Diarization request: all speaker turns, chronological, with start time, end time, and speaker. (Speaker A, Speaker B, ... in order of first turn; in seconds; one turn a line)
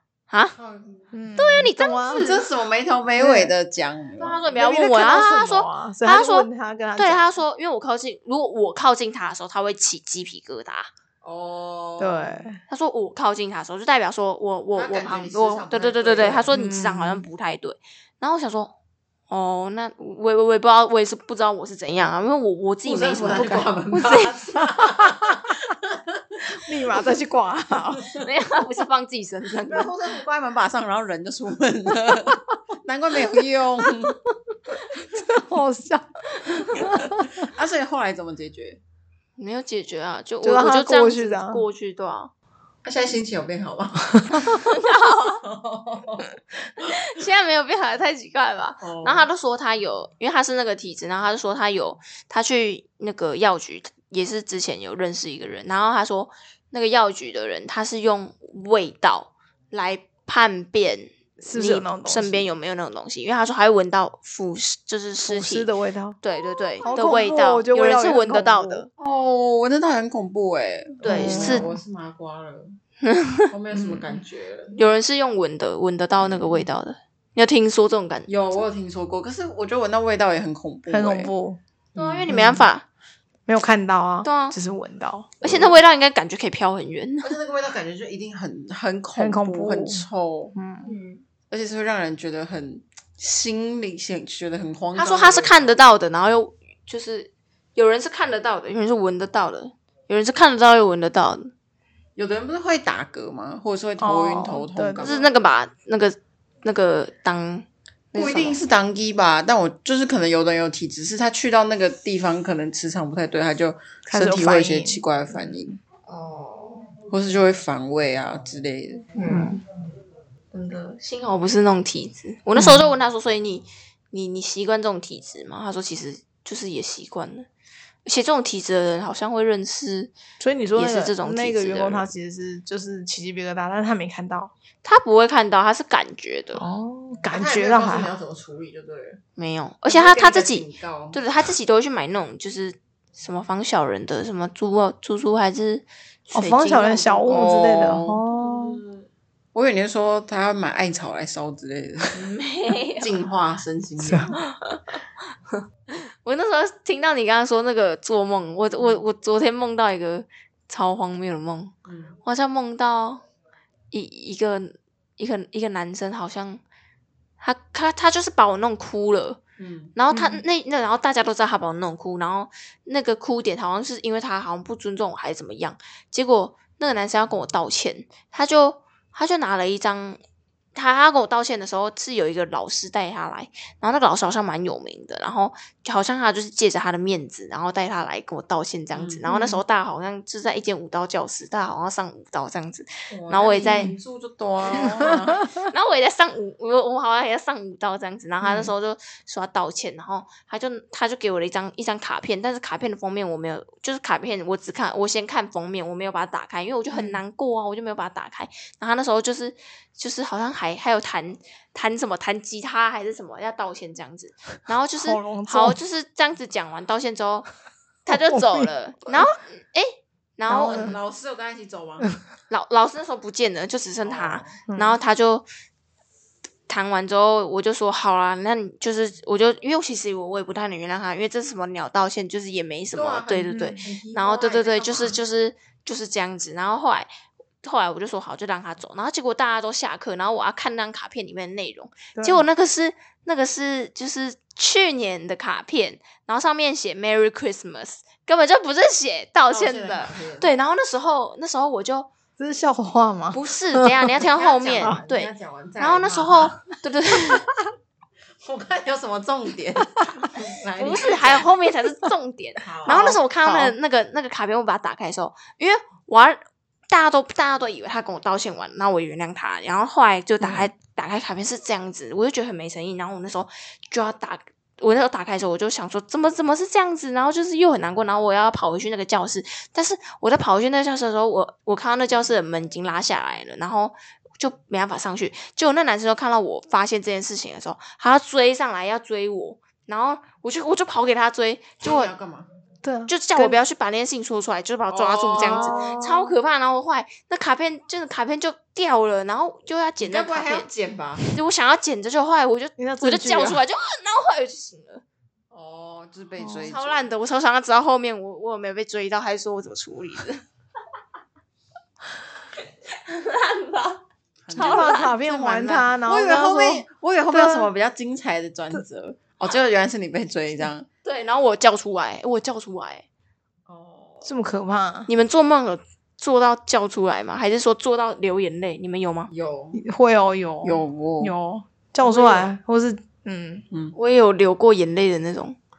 Speaker A: 0.3-0.6
Speaker B: 0.6-1.1
Speaker C: 1.1-2.3
Speaker A: 1.4-2.4
Speaker B: 2.1-4.4
Speaker C: 3.2-3.5
Speaker A: 4.2-10.9
Speaker C: 4.5-7.3
Speaker B: 11.2-12.5
Speaker C: 12.0-12.6
Speaker A: 12.7-18.7
Speaker B: 14.8-16.5
Speaker C: 16.5-17.2
Speaker A: 19.3-24.6
Speaker B: 22.8-27.0
Speaker C: 23.2-23.7
Speaker C: 24.6-24.9
Speaker C: 26.5-28.1
Speaker B: 28.0-28.3
Speaker A: 28.1-29.9
Speaker B: 29.6-34.2
Speaker C: 32.1-32.4
Speaker C: 35.0-37.5
Speaker B: 36.8-38.8
Speaker A: 39.4-42.3
Speaker C: 40.4-41.6
Speaker B: 42.8-44.6
Speaker A: 44.3-45.4
Speaker B: 45.4-46.3
Speaker A: 46.8-65.7
Speaker B: 48.8-49.3
Speaker C: 61.4-62.4
Speaker C: 65.2-66.2
Speaker A: 66.2-68.9
Speaker C: 66.8-68.9
Speaker B: 69.0-72.8
Speaker A: 71.0-71.7
Speaker C: 71.0-71.8
Speaker A: 73.0-73.5
Speaker B: 73.5-74.8
Speaker C: 73.7-74.2
Speaker A: 74.7-78.3
Speaker B: 78.3-81.3
Speaker C: 80.9-81.6
Speaker B: 81.9-82.3
Speaker A: 81.9-82.8
Speaker C: 82.3-82.7
Speaker C: 83.5-85.3
Speaker A: 84.2-84.5
Speaker A: 85.4-87.3
Speaker B: 85.4-85.7
Speaker B: 87.2-90.5
Speaker C: 89.2-90.9
Speaker A: 90.8-91.2
Speaker B: 91.5-95.8
Speaker A: 94.9-101.5
Speaker B: 102.2-105.2
Speaker C: 104.0-105.3
Speaker A: 105.0-108.6
Speaker B: 108.1-115.8
Speaker C: 114.0-115.0
Speaker A: 116.1-116.9
Speaker B: 117.1-119.1
Speaker A: 119.1-119.6
Speaker A: 120.5-127.5
Speaker C: 122.5-122.8
Speaker A: 128.0-130.1
Speaker C: 130.4-134.5
Speaker A: 130.8-132.1
Speaker A: 134.8-136.6
Speaker C: 136.6-138.1
Speaker B: 137.3-139.2
Speaker A: 139.3-147.5
Speaker B: 139.8-141.2
Speaker C: 146.3-148.8
Speaker B: 147.3-149.0
Speaker B: 149.5-152.2
Speaker A: 152.1-153.2
Speaker B: 153.0-154.4
Speaker C: 154.0-154.3
Speaker A: 154.3-155.0
Speaker A: 155.9-163.2
Speaker B: 158.7-159.0
Speaker B: 161.8-162.2
Speaker A: 163.9-166.6
Speaker A: 167.4-169.4
Speaker B: 169.6-169.9
Speaker A: 169.9-180.2
Speaker C: 170.1-170.4
Speaker A: 180.7-193.9
Speaker B: 188.9-189.2
Speaker C: 189.3-189.6
Speaker B: 193.1-195.5
Speaker A: 194.7-217.5
Speaker C: 198.4-198.7
Speaker C: 206.9-207.2
Speaker C: 215.0-215.8
Speaker A: 218.1-220.9
Speaker C: 218.1-218.7
Speaker C: 220.5-220.9
Speaker B: 220.5-222.1
Speaker A: 222.5-225.4
Speaker B: 224.0-224.6
Speaker C: 224.7-225.0
Speaker A: 226.7-237.1
Speaker B: 232.9-235.2
Speaker C: 233.5-233.8
Speaker A: 237.6-252.1
Speaker C: 242.2-242.4
Speaker B: 249.5-250.5
Speaker C: 252.4-254.1
Speaker A: 253.3-257.5
Speaker B: 254.1-256.5
Speaker B: 258.4-261.5
Speaker A: 260.8-292.1
Speaker B: 262.6-263.2
Speaker C: 262.9-263.7
Speaker B: 291.8-292.5
Speaker C: 292.8-293.6
Speaker A: 293.1-300.7
Speaker B: 294.9-295.9
Speaker C: 295.4-296.3
Speaker B: 300.0-301.2
Speaker A: 301.3-305.0
Speaker C: 302.8-303.6
Speaker B: 305.5-307.1
Speaker C: 306.4-306.7
Speaker A: 306.6-310.4
Speaker A: 313.0-315.1
Speaker B: 314.4-320.9
Speaker C: 314.5-317.7
Speaker A: 321.0-323.1
Speaker B: 323.7-324.3
Speaker C: 324.2-325.1
Speaker A: 325.1-329.3
Speaker B: 329.3-329.8
Speaker C: 329.7-333.6
Speaker B: 330.6-331.3
Speaker A: 332.0-332.5
Speaker A: 333.9-335.6